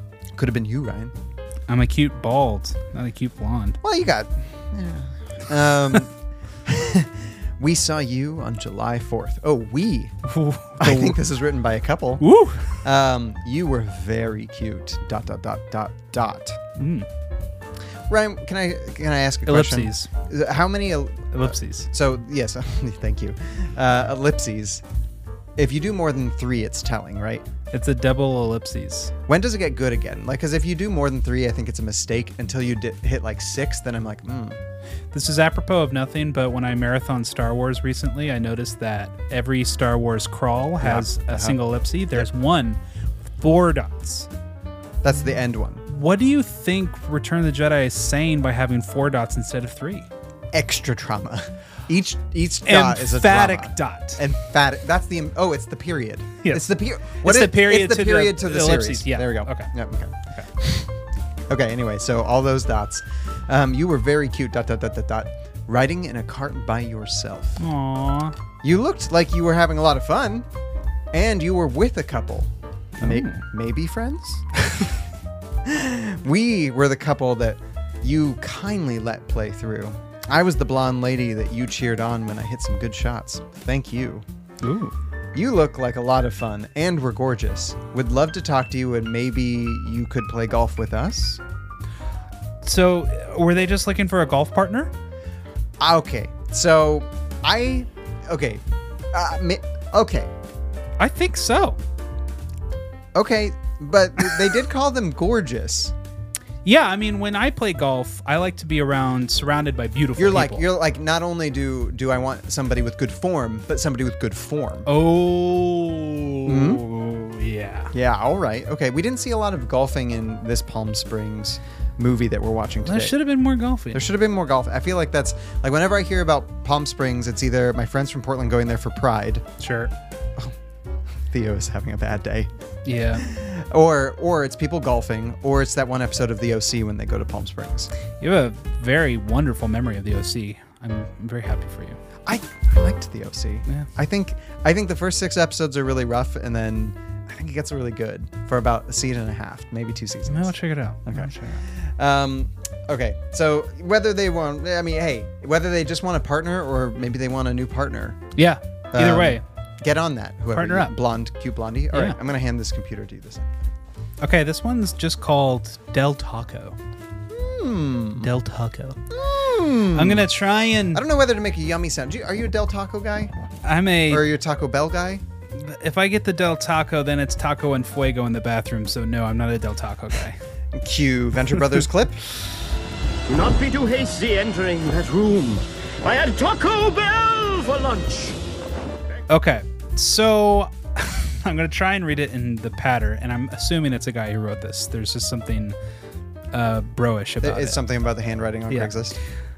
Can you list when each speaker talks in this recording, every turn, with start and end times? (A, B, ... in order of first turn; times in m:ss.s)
0:00.3-0:01.1 A
0:01.7-0:03.8 B
0:03.8-0:06.1 A
0:06.6-0:10.1 A
0:10.2-0:11.2 B
0:10.8-0:12.2 A
0:12.2-0:12.8 B
0:12.7-0:16.6 A
0:16.8-0:17.1 B
0:18.1-0:24.8 A
0:19.4-0:20.1 B
0:21.3-0:21.9 B
0:25.6-0:27.5 A
0:27.7-0:29.1 B
0:29.3-0:34.6 A
0:35.1-0:42.8 B
0:40.8-0:41.6 A
0:43.4-0:44.3 B
0:45.0-0:45.8 A
0:45.9-0:50.1 B
0:50.5-1:00.9 A
0:52.6-0:54.2 B
0:56.4-0:59.7 B
1:01.5-1:07.6 A
1:07.6-1:08.4 B
1:08.6-1:10.5 A
1:11.1-1:14.9 A
1:13.0-1:13.4 B
1:15.6-1:24.2 A
1:24.6-1:24.9 B
1:25.3-1:31.4 A
1:32.6-1:34.9 B
1:35.8-1:40.3 A
1:41.0-1:41.8 B
1:43.1-1:45.9 A
1:46.6-1:50.6 B
1:50.2-1:54.9 A
1:54.8-1:57.9 B
1:56.4-1:56.8 A
1:57.9-2:03.2 A
2:02.8-2:04.0 B
2:03.9-2:09.4 A
2:09.6-2:09.9 B
2:11.3-2:12.5 A
2:12.8-2:13.2 B
2:13.2-2:17.9 A
2:18.2-2:22.0 B
2:22.2-2:38.2 A
2:30.3-2:31.6 B
2:38.4-2:39.4 B
2:38.9-2:43.7 A
2:40.5-2:40.9 B
2:44.2-2:46.8 B
2:47.3-2:48.3 A
2:48.2-2:49.0 B
2:49.1-2:50.3 A
2:49.9-2:51.0 B
2:50.9-2:53.3 A
2:53.6-2:54.2 B
2:54.1-2:55.2 A
2:55.5-3:00.4 B
3:00.7-3:02.2 A
3:03.3-3:08.4 C
3:09.3-3:15.8 B
3:16.5-3:17.8 B
3:17.4-3:19.2 A